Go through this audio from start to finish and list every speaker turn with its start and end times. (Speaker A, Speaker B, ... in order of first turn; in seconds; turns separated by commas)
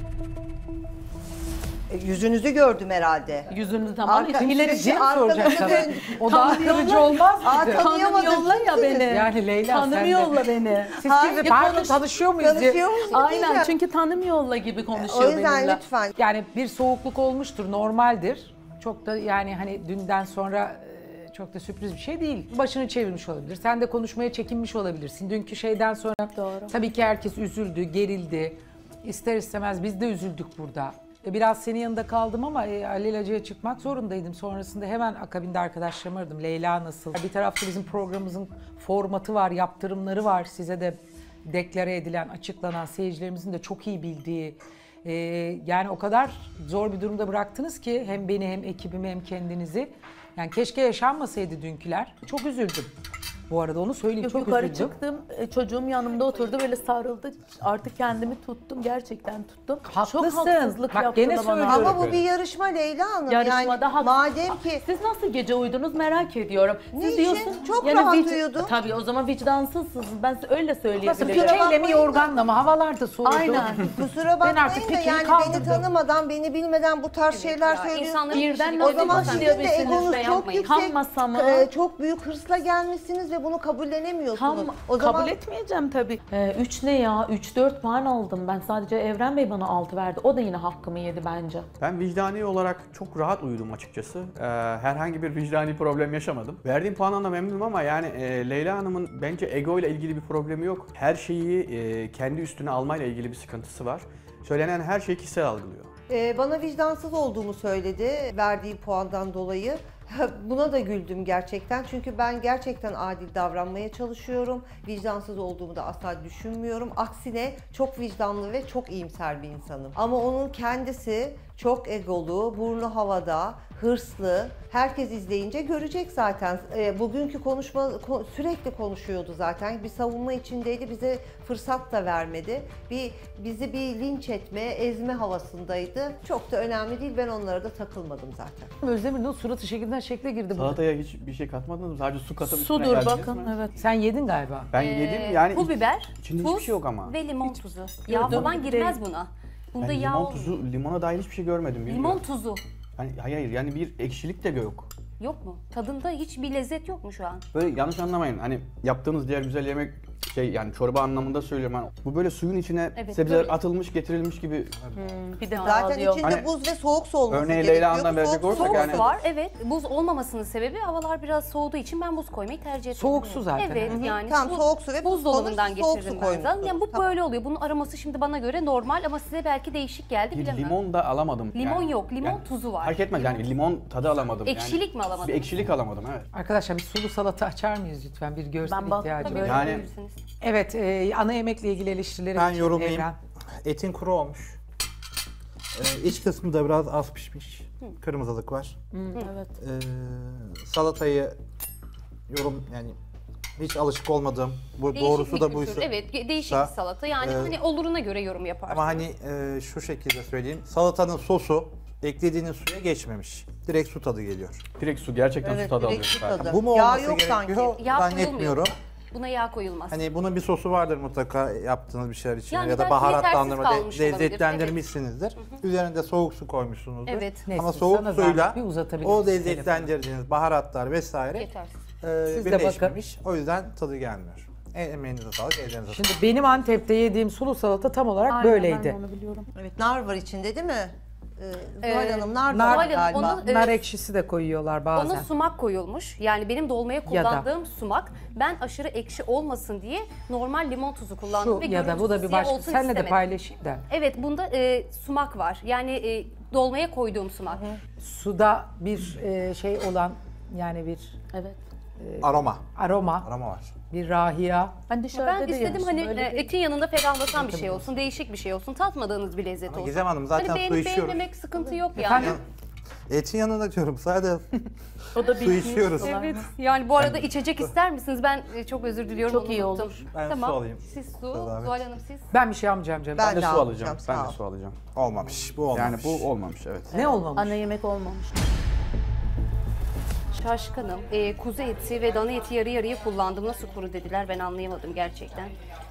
Speaker A: 1.9-3.5, Speaker B: 3.5-12.0, Speaker A: 4.0-9.2, Speaker C: 4.4-7.8, Speaker C: 9.1-12.8, Speaker A: 11.0-11.8, Speaker A: 12.4-13.7, Speaker B: 13.1-15.8, Speaker A: 14.9-16.1, Speaker C: 16.2-52.9, Speaker B: 26.3-26.7, Speaker C: 53.5-54.9, Speaker B: 54.2-61.9, Speaker C: 59.8-62.0, Speaker A: 61.6-64.8, Speaker D: 61.8-62.2, Speaker B: 63.3-71.7, Speaker A: 66.9-68.7, Speaker C: 71.0-75.8, Speaker A: 71.2-72.3, Speaker B: 73.2-73.9, Speaker A: 73.8-85.3, Speaker E: 77.3-80.7, Speaker B: 78.3-81.7, Speaker B: 84.3-91.7, Speaker D: 91.8-105.9, Speaker A: 106.1-138.7, Speaker C: 138.8-140.8, Speaker D: 140.5-143.5, Speaker B: 142.4-143.7, Speaker C: 143.7-144.7, Speaker D: 144.7-147.2, Speaker E: 144.7-150.6, Speaker B: 147.5-149.0, Speaker D: 148.2-148.6, Speaker D: 149.8-152.2, Speaker E: 151.8-152.6, Speaker D: 153.0-154.9, Speaker E: 155.2-157.4, Speaker D: 157.5-164.9, Speaker E: 162.9-163.5, Speaker B: 164.9-166.3, Speaker E: 165.5-165.8, Speaker A: 165.5-169.1, Speaker D: 167.3-169.1, Speaker E: 168.5-180.8, Speaker C: 172.9-174.0, Speaker A: 173.9-177.1, Speaker D: 180.3-186.2, Speaker E: 181.5-183.4, Speaker E: 184.4-185.5, Speaker C: 186.3-189.6, Speaker B: 188.6-189.8, Speaker E: 189.2-190.2, Speaker D: 189.4-189.8, Speaker C: 190.4-193.2, Speaker F: 192.3-193.1, Speaker F: 193.6-194.6, Speaker F: 195.7-198.8, Speaker B: 198.9-199.5, Speaker F: 199.6-201.3, Speaker F: 202.3-202.9, Speaker F: 203.6-207.6, Speaker E: 204.9-209.0, Speaker F: 208.7-214.6, Speaker D: 214.8-216.5, Speaker A: 215.4-217.8, Speaker F: 216.4-218.7, Speaker E: 217.8-220.0, Speaker F: 219.9-231.5, Speaker E: 222.5-224.8, Speaker E: 227.1-227.4, Speaker C: 227.4-229.9, Speaker E: 231.3-231.7, Speaker F: 232.0-236.1, Speaker C: 232.3-233.0, Speaker C: 235.9-239.0, Speaker B: 238.2-239.5, Speaker A: 239.5-243.4, Speaker E: 241.8-243.8, Speaker C: 242.5-245.3, Speaker E: 244.9-253.3, Speaker C: 247.1-247.4, Speaker C: 251.3-253.8, Speaker E: 253.9-257.7, Speaker C: 258.0-261.2, Speaker B: 261.3-261.6, Speaker C: 262.0-263.3, Speaker F: 262.2-262.6, Speaker F: 263.2-263.7, Speaker C: 263.9-264.7, Speaker B: 264.9-266.5, Speaker E: 265.1-272.4, Speaker F: 267.4-268.0, Speaker F: 269.7-271.3, Speaker C: 272.0-272.4, Speaker F: 272.0-272.4, Speaker F: 273.1-274.6, Speaker B: 275.1-276.5, Speaker F: 275.2-276.2, Speaker E: 275.7-282.2, Speaker F: 277.0-277.7, Speaker B: 279.2-280.0, Speaker F: 280.1-281.8, Speaker C: 282.3-283.3, Speaker A: 283.1-284.4, Speaker D: 283.2-284.8, Speaker F: 284.9-286.3, Speaker D: 285.7-286.9, Speaker C: 286.9-287.6, Speaker B: 286.9-288.3, Speaker E: 290.4-295.5